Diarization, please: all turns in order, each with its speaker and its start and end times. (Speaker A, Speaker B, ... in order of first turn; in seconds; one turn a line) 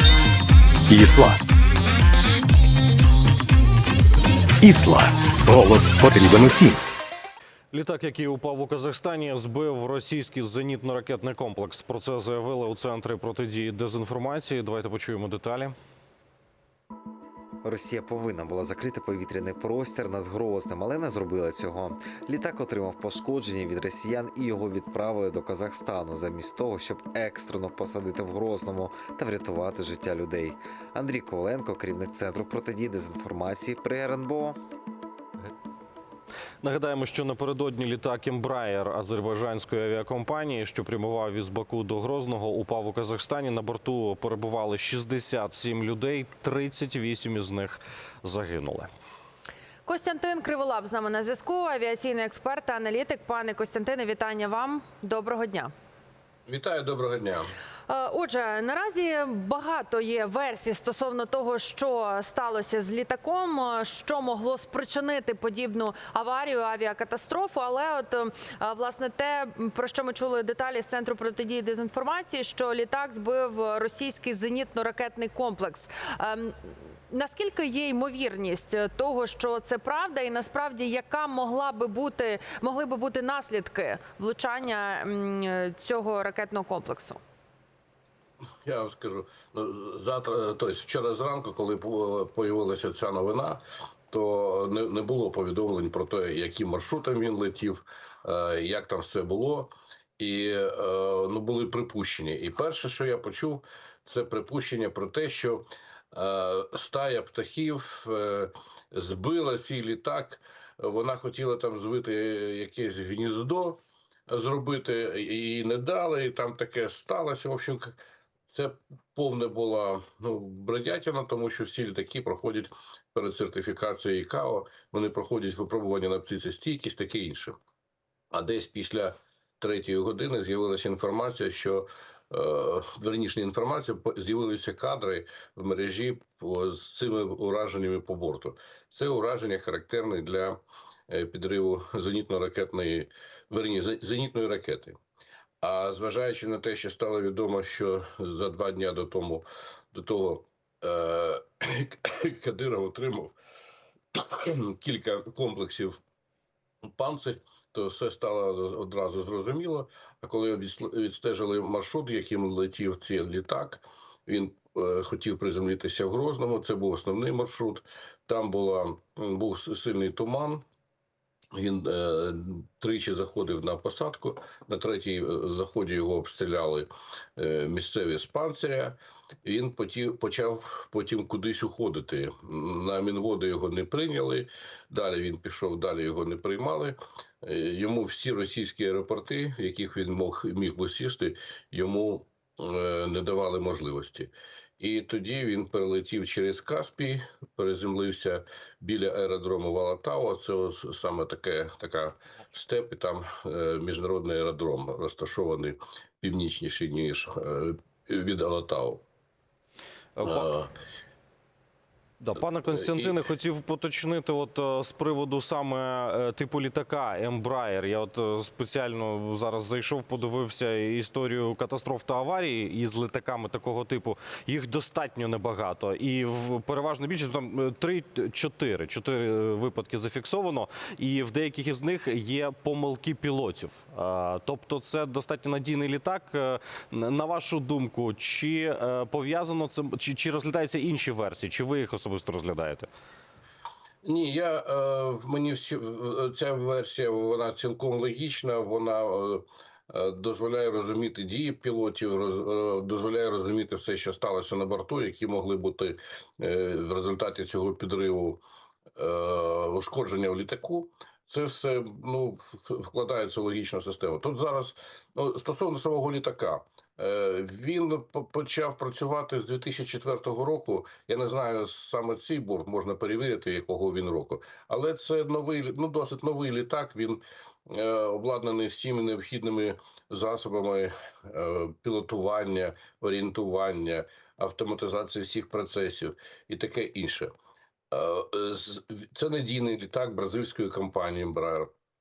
Speaker A: 0.9-1.4
Speaker A: 4.6-6.8
Speaker B: 7.7-15.7
Speaker C: 17.6-34.6
Speaker B: 36.6-48.9
Speaker D: 49.8-55.7
Speaker E: 56.5-57.5
Speaker D: 57.9-87.2
Speaker E: 88.6-127.6
Speaker E: 128.3-145.0
Speaker E: 145.6-153.3
Speaker E: 154.1-156.0
Speaker E: 156.9-170.6
Speaker E: 171.5-209.0
Speaker B: 210.2-210.5
Speaker E: 210.2-210.7
Speaker B: 212.2-242.9
Speaker E: 212.8-213.1
Speaker E: 244.0-258.4
Speaker E: 258.9-287.3
Speaker E: 287.9-291.7